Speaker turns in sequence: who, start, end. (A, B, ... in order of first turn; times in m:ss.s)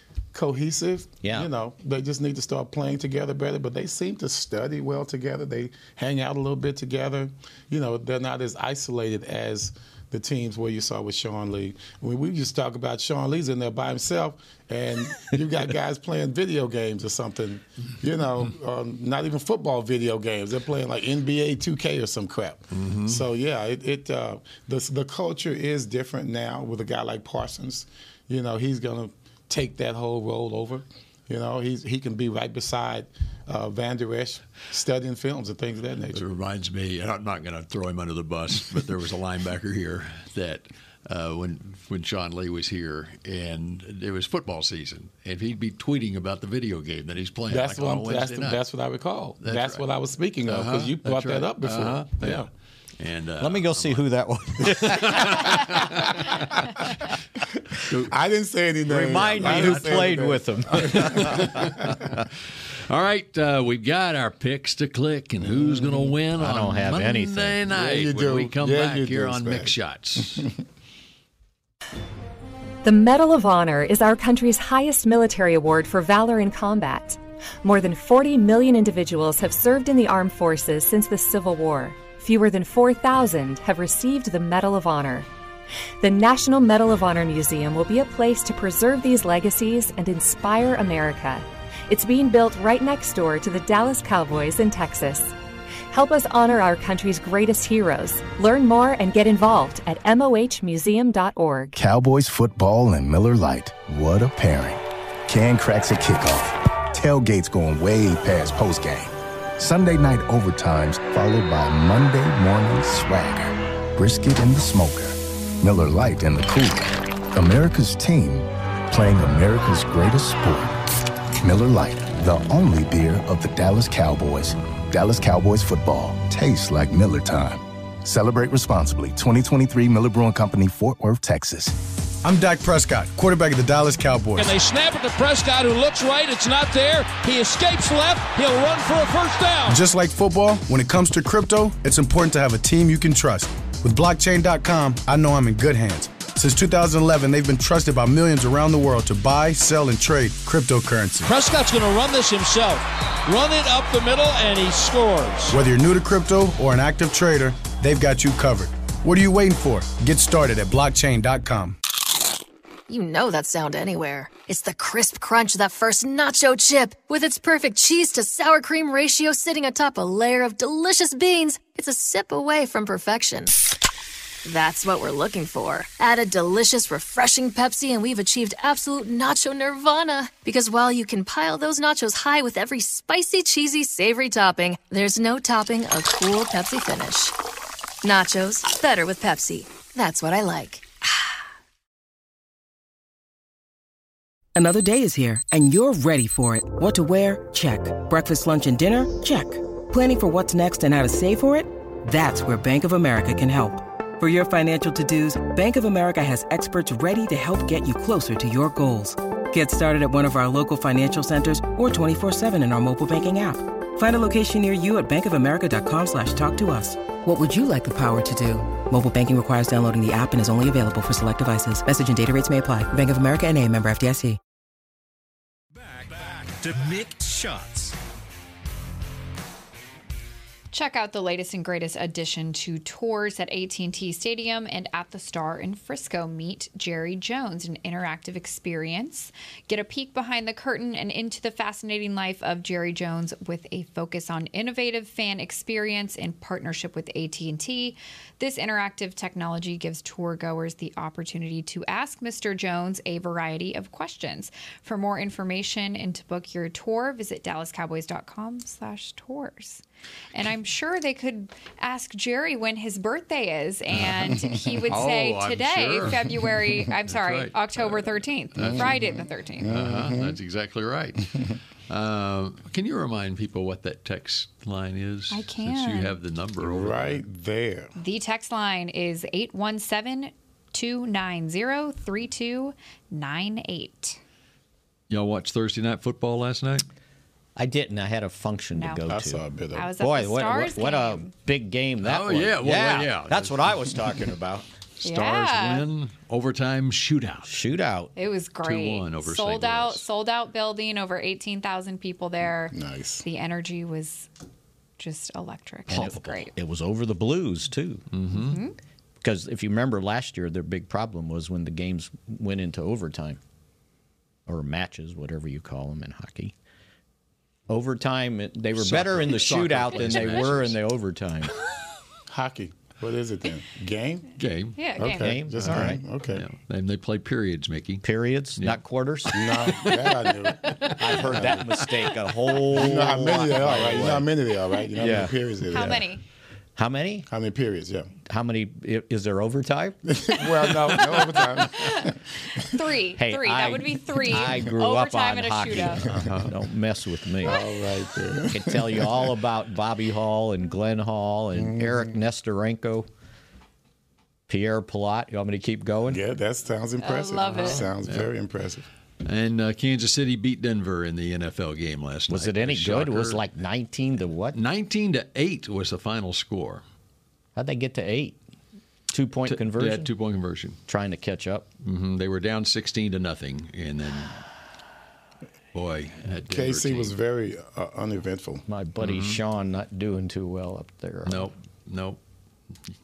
0:00.3-0:36.2 A
0:01.2-0:01.5 B
0:22.8-0:23.2 C
0:36.1-0:48.6 C
0:47.5-0:52.5 A
0:49.4-0:49.8 C
0:50.5-0:54.0 C
0:53.4-0:56.0 B
0:54.6-0:56.9 C
0:58.0-1:01.9 A
0:58.9-1:01.7 B
0:59.4-1:00.0 C
1:00.7-1:02.3 C
1:02.9-1:10.5 C
1:05.4-1:06.1 A
1:06.4-1:07.6 B
1:07.7-1:10.5 A
1:12.8-1:25.3 D
1:26.0-1:35.3 D
1:35.9-1:41.8 D
1:41.8-2:00.8 E
2:01.4-2:11.8 E
2:12.2-2:14.5 F
2:14.4-2:19.8 G
2:19.7-2:31.3 F
2:31.2-2:35.6 G
2:35.5-2:41.8 F
2:42.9-2:53.5 H
2:54.4-3:07.4 H
3:08.0-3:11.3 H
3:14.6-3:44.4 I
3:45.8-3:48.0 J
3:50.7-4:19.8 K
4:20.3-4:29.7 K
4:24.9-4:26.5 C
4:27.0-4:29.0 C
4:28.6-4:29.0 A
4:29.6-4:30.4 A
4:29.6-4:37.2 C
4:35.3-4:36.2 K
4:36.6-4:37.9 A
4:38.0-4:44.2 K
4:45.1-4:46.8 C
4:47.6-4:49.4 B
4:48.8-4:49.0 K
4:49.1-4:49.9 A
4:49.7-4:51.3 K
4:50.0-4:54.7 B
4:52.0-4:53.6 C
4:55.0-4:57.5 C
4:55.0-4:55.9 K
4:57.4-4:58.1 B
4:58.2-5:04.3 K
4:58.6-5:00.1 C
5:02.7-5:03.2 A
5:05.0-5:06.5 K
5:05.9-5:08.0 B
5:08.1-5:08.6 C
5:08.3-5:08.8 K
5:09.2-5:13.4 B
5:14.5-5:16.5 B
5:17.7-5:21.5 B
5:18.8-5:20.8 C
5:20.0-5:20.5 K
5:22.3-5:24.3 A
5:24.4-5:24.8 C
5:24.8-5:25.4 K
5:25.0-5:26.4 A
5:25.2-5:26.0 B
5:25.6-5:28.0 C
5:28.0-5:29.4 B
5:28.6-5:30.3 C
5:29.3-5:31.7 A
5:31.0-5:34.3 B
5:32.7-5:36.1 A
5:35.0-5:35.4 B
5:35.6-5:36.2 K
5:36.8-5:37.3 B
5:37.3-5:38.1 A
5:38.3-5:40.0 B
5:40.1-5:42.2 A
5:41.4-5:46.1 K
5:43.2-5:47.6 B
5:46.0-5:46.5 C
5:46.1-5:46.5 A
5:47.4-5:49.3 A
5:48.5-5:53.1 B
5:51.5-5:52.2 A
5:54.5-5:56.2 B
5:56.1-5:58.9 A
5:57.0-5:57.9 K
5:57.5-5:58.3 C
5:59.2-6:03.4 C
6:02.3-6:04.6 B
6:04.5-6:06.8 C
6:07.6-6:08.4 B
6:09.1-6:10.1 B
6:09.5-6:10.8 C
6:10.9-6:11.7 B
6:11.8-6:14.4 C
6:15.7-6:17.1 C
6:16.5-6:18.6 A
6:18.7-6:21.5 B
6:19.0-6:19.4 C
6:21.3-6:22.2 C